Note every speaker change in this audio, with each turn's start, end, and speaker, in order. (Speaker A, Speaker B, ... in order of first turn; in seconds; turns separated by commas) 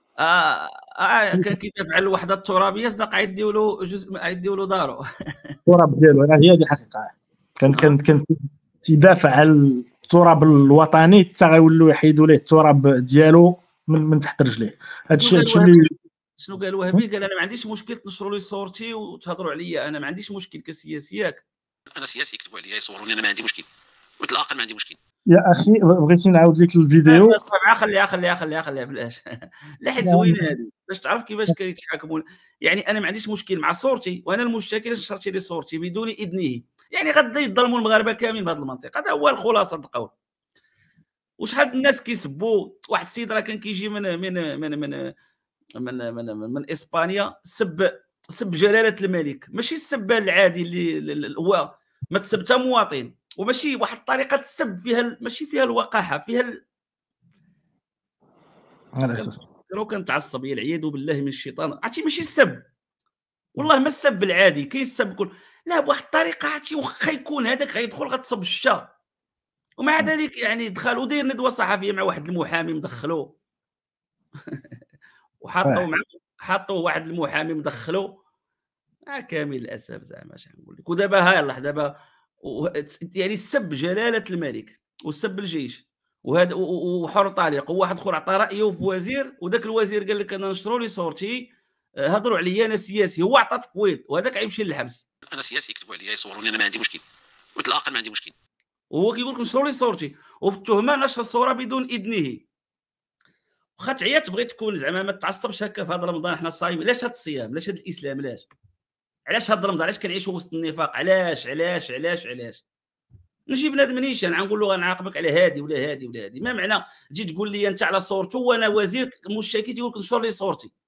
Speaker A: 0.2-5.5, Speaker B: 5.7-15.9, Speaker A: 7.7-8.0, Speaker A: 15.1-21.4, Speaker C: 21.9-23.7, Speaker C: 24.2-25.0, Speaker B: 25.3-27.4, Speaker A: 27.1-29.2, Speaker A: 29.8-40.1, Speaker B: 30.0-30.5, Speaker A: 41.4-45.0, Speaker A: 45.8-56.6, Speaker B: 59.0-59.3, Speaker A: 59.1-62.6, Speaker A: 63.5-68.9, Speaker A: 69.8-73.3, Speaker A: 75.4-78.1, Speaker A: 79.1-81.9, Speaker A: 82.4-91.5, Speaker A: 92.0-95.0, Speaker C: 95.3-97.0, Speaker C: 97.6-98.3, Speaker A: 98.9-102.4, Speaker A: 103.8-108.5, Speaker A: 109.3-112.6, Speaker A: 113.5-120.7